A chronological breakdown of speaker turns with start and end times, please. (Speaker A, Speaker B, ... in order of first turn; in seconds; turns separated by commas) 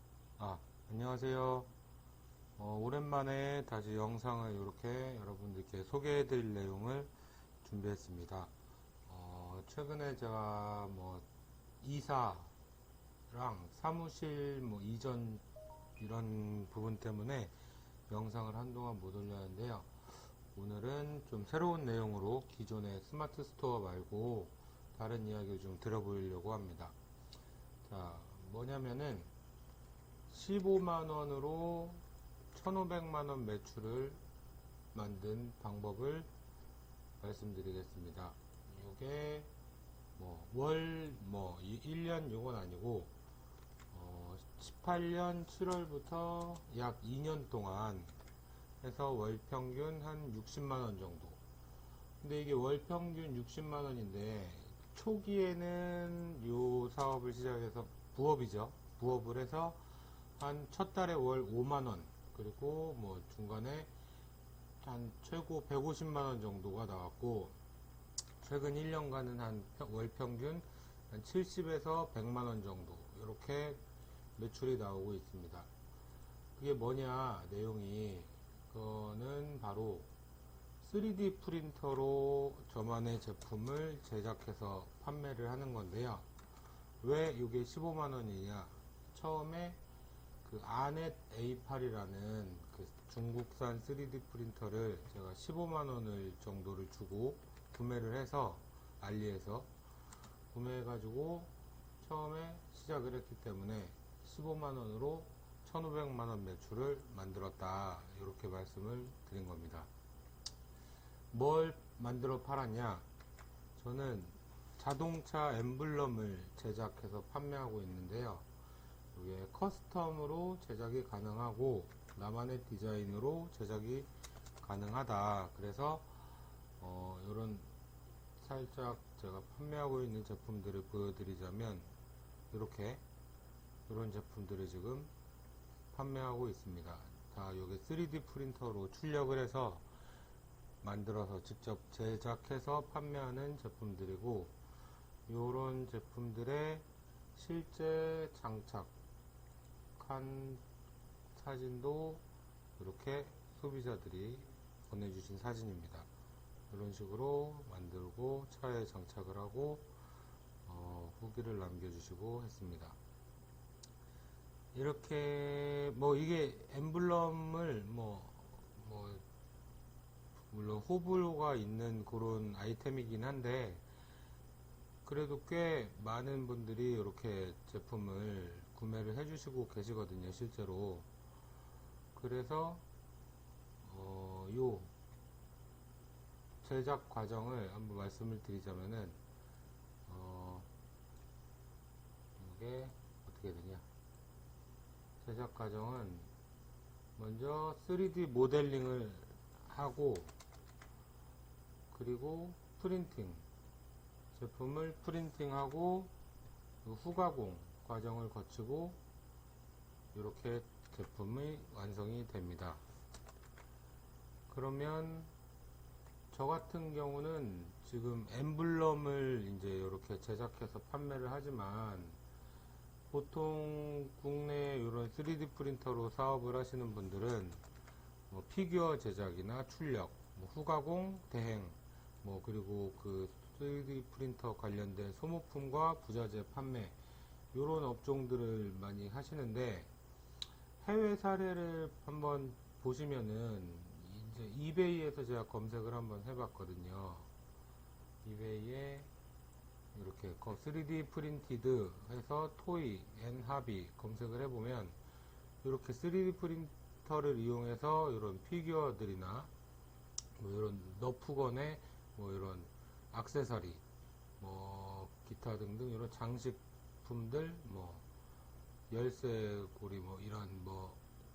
Speaker A: 0.4-1.7, Speaker A: 2.6-8.5, Speaker A: 9.1-11.2, Speaker A: 11.8-12.5, Speaker A: 13.3-15.4, Speaker A: 16.0-17.5, Speaker A: 18.1-19.9, Speaker A: 20.5-26.9, Speaker A: 27.8-29.3, Speaker A: 30.3-34.2, Speaker A: 34.9-36.3, Speaker A: 37.2-39.5, Speaker A: 40.2-43.1, Speaker A: 43.9-48.1, Speaker A: 48.8-51.4, Speaker A: 52.2-59.8, Speaker A: 60.4-63.9, Speaker A: 64.8-67.5, Speaker A: 68.4-73.8, Speaker A: 74.4-75.7, Speaker A: 76.5-80.1, Speaker A: 80.8-86.3, Speaker A: 87.0-89.8, Speaker A: 90.4-99.7, Speaker A: 100.5-109.9, Speaker A: 111.3-113.0, Speaker A: 113.8-118.4, Speaker A: 119.1-124.1, Speaker A: 124.6-126.1, Speaker A: 126.8-127.7, Speaker A: 128.4-131.9, Speaker A: 132.5-133.0, Speaker A: 133.9-135.1, Speaker A: 135.9-139.8, Speaker A: 140.8-144.5, Speaker A: 145.3-148.9, Speaker A: 150.0-150.6, Speaker A: 151.3-152.2, Speaker A: 152.8-156.1, Speaker A: 156.7-159.9, Speaker A: 160.7-163.0, Speaker A: 164.7-169.2, Speaker A: 170.5-173.8, Speaker A: 175.0-181.1, Speaker A: 182.1-182.8, Speaker A: 183.8-184.9, Speaker A: 186.6-189.2, Speaker A: 190.1-190.7, Speaker A: 192.4-193.8, Speaker A: 195.2-196.3, Speaker A: 197.2-200.3, Speaker A: 201.9-203.4, Speaker A: 204.3-206.1, Speaker A: 206.8-209.0, Speaker A: 210.1-212.8, Speaker A: 214.5-215.3, Speaker A: 216.3-222.2, Speaker A: 223.1-227.6, Speaker A: 228.3-236.9, Speaker A: 237.5-239.9, Speaker A: 240.8-247.3, Speaker A: 248.2-249.1, Speaker A: 249.9-254.9, Speaker A: 255.6-259.5, Speaker A: 260.4-263.8, Speaker A: 264.4-268.0, Speaker A: 268.9-271.0